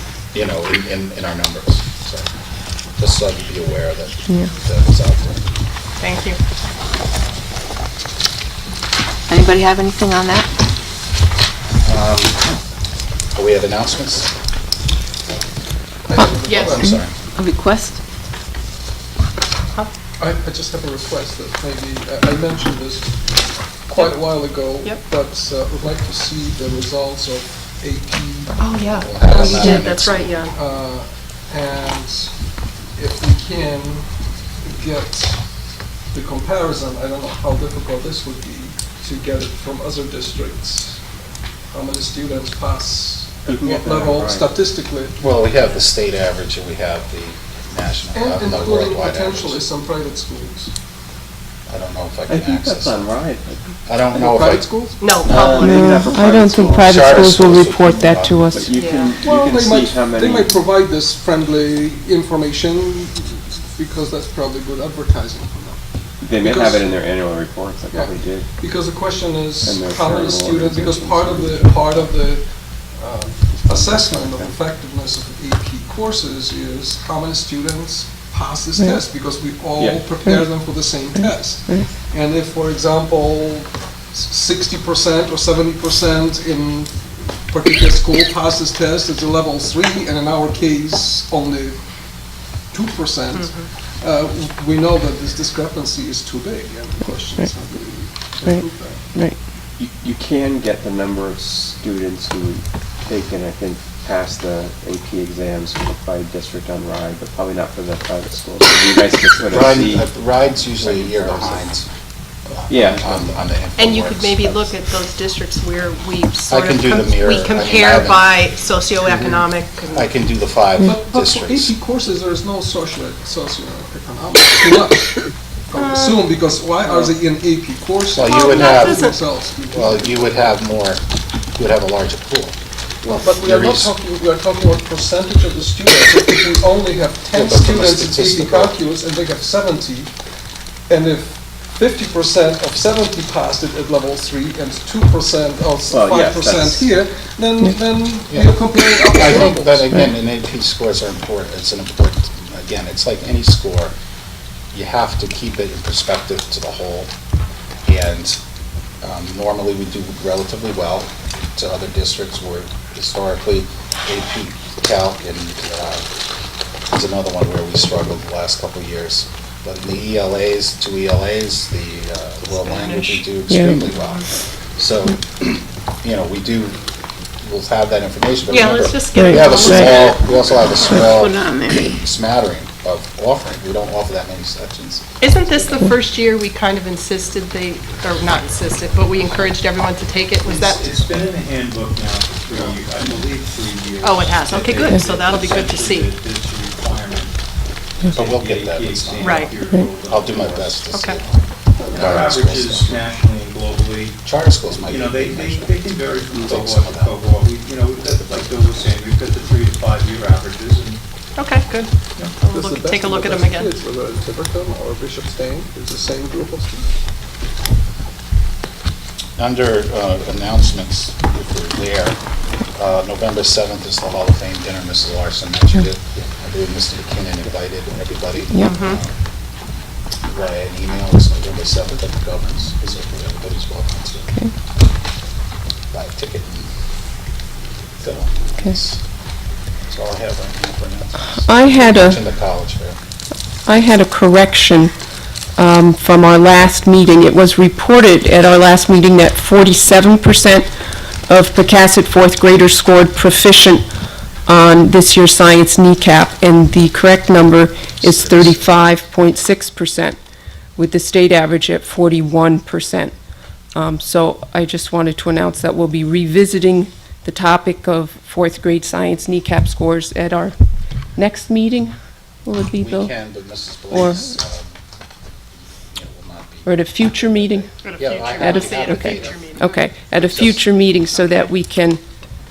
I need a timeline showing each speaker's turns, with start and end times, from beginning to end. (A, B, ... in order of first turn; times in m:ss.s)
0:00.3-0:02.3 A
0:03.0-0:05.4 A
0:06.0-0:06.4 B
0:09.3-0:10.5 C
0:11.8-0:12.4 A
0:13.3-0:14.3 A
0:16.0-0:17.0 D
0:16.4-0:16.8 B
0:16.7-0:17.1 A
0:17.4-0:18.0 C
0:20.2-0:23.1 D
0:23.9-0:29.9 D
0:28.6-0:30.5 B
0:29.0-0:30.3 A
0:30.5-0:32.4 D
0:32.9-0:34.1 D
0:34.6-0:35.4 D
0:36.1-0:41.0 D
0:41.7-0:45.2 D
0:43.5-0:44.6 E
0:45.2-0:49.6 A
0:48.1-0:50.7 D
0:51.7-0:53.1 A
0:52.3-0:53.7 E
0:53.8-0:54.7 A
0:54.1-0:55.3 D
0:55.0-0:56.1 B
0:55.2-0:57.4 E
0:55.6-0:58.8 F
0:56.9-0:58.4 A
0:58.5-1:00.6 E
0:58.8-0:59.2 B
0:59.2-1:07.0 D
1:06.2-1:08.5 E
1:07.9-1:31.8 D
1:09.6-1:12.1 E
1:13.7-1:14.5 E
1:19.8-1:20.2 E
1:32.7-1:39.1 D
1:33.3-1:33.7 B
1:38.4-1:39.4 F
1:39.8-1:51.7 E
1:49.5-1:51.9 A
1:52.5-1:54.8 A
1:52.7-1:53.3 E
1:53.8-2:00.1 B
1:56.5-1:58.3 A
1:59.1-2:01.7 A
2:00.8-2:10.6 D
2:05.7-2:06.2 B
2:08.2-2:09.1 A
2:08.2-2:09.1 B
2:09.7-2:11.0 A
2:11.6-2:12.6 A
2:13.0-2:20.1 D
2:13.4-2:13.9 G
2:17.3-2:18.7 A
2:20.9-2:30.0 D
2:25.9-2:27.0 E
2:28.3-2:33.9 A
2:34.7-2:37.1 A
2:37.8-2:38.4 A
2:39.0-2:46.0 A
2:46.9-2:56.8 A
2:52.5-2:53.2 B
2:53.5-2:53.8 F
2:57.4-3:05.9 A
2:58.5-3:00.3 B
2:59.1-3:00.0 F
3:00.7-3:02.0 C
3:05.2-3:10.8 B
3:10.4-3:17.4 G
3:14.0-3:16.1 B
3:18.1-3:21.3 G
3:18.1-3:19.5 A
3:19.2-3:19.5 B
3:20.1-3:23.0 A
3:20.9-3:21.2 B
3:21.8-3:31.0 G
3:24.2-3:25.8 A
3:26.3-3:27.1 A
3:31.4-3:33.7 B
3:32.5-3:37.0 D
3:39.4-3:42.2 A
3:42.7-3:49.1 A
3:48.5-3:48.8 F
3:48.6-3:49.0 B
3:50.3-3:54.3 A
3:55.9-3:56.7 A
3:58.0-3:59.0 A
3:59.9-4:03.0 A
4:01.3-4:02.2 F
4:03.6-4:04.9 F
4:05.6-4:10.7 F
4:11.3-4:13.8 F
4:14.4-4:20.2 F
4:18.0-4:18.9 A
4:20.8-4:23.1 F
4:23.7-4:30.5 F
4:31.2-4:33.2 F
4:32.8-4:34.8 A
4:33.9-4:34.3 F
4:35.7-4:39.5 A
4:36.6-4:37.8 F
4:37.8-4:39.9 B
4:38.3-4:42.0 F
4:40.2-4:40.7 A